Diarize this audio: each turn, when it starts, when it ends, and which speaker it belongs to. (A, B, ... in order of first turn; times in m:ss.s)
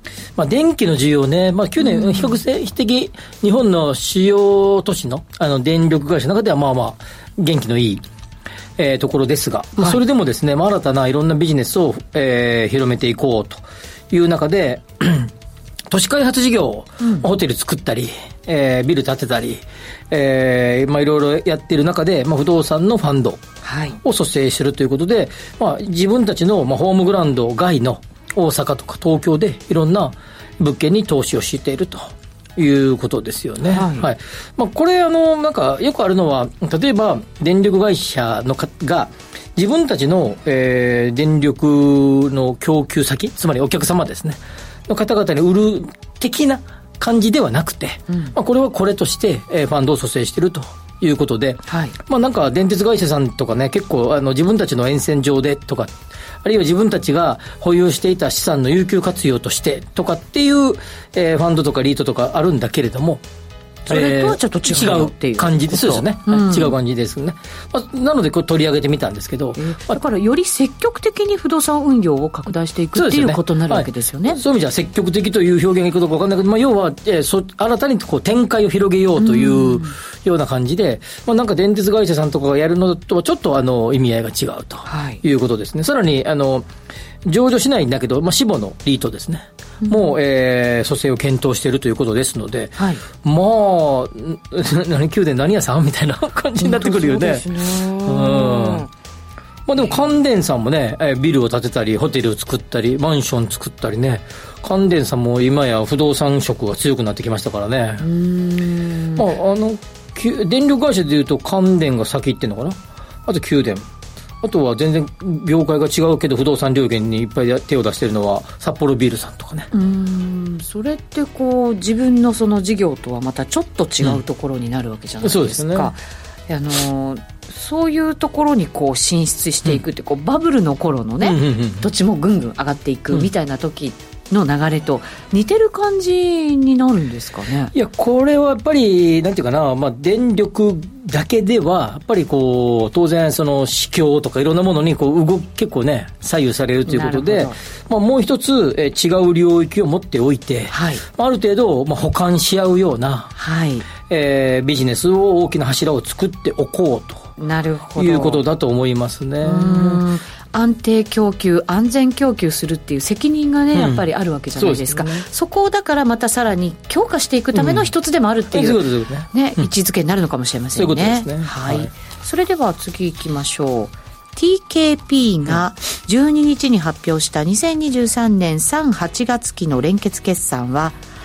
0:00.4-0:08.0 A
0:01.8-0:02.4 B
0:08.8-0:15.3 A
0:15.9-0:23.4 A
0:17.0-0:17.3 B
0:23.6-0:24.0 B
0:24.0-1:03.2 A
0:33.7-0:34.1 B
0:48.1-0:48.3 B
0:51.7-0:52.0 B
1:03.9-1:06.7 B
1:03.9-1:10.0 A
1:09.6-1:14.4 B
1:13.0-1:26.7 A
1:19.2-1:20.0 B
1:24.9-1:25.2 B
1:27.2-1:37.5 A
1:29.8-1:30.1 B
1:32.8-1:33.0 B
1:36.6-1:38.9 B
1:38.0-1:38.9 A
1:39.7-1:48.1 A
1:48.0-1:49.2 B
1:49.2-1:53.9 A
1:54.4-1:59.7 A
1:59.7-2:17.7 B
2:05.2-2:05.9 A
2:11.2-2:11.9 A
2:17.7-2:33.3 A
2:26.9-2:27.6 B
2:30.7-2:31.0 B
2:33.4-2:33.9 B
2:34.0-2:37.3 A
2:37.4-2:38.4 B
2:38.0-2:40.0 A
2:39.4-3:01.0 B
2:43.7-2:45.3 A
2:47.5-2:47.9 A
2:48.5-2:49.7 A
2:50.7-2:51.9 A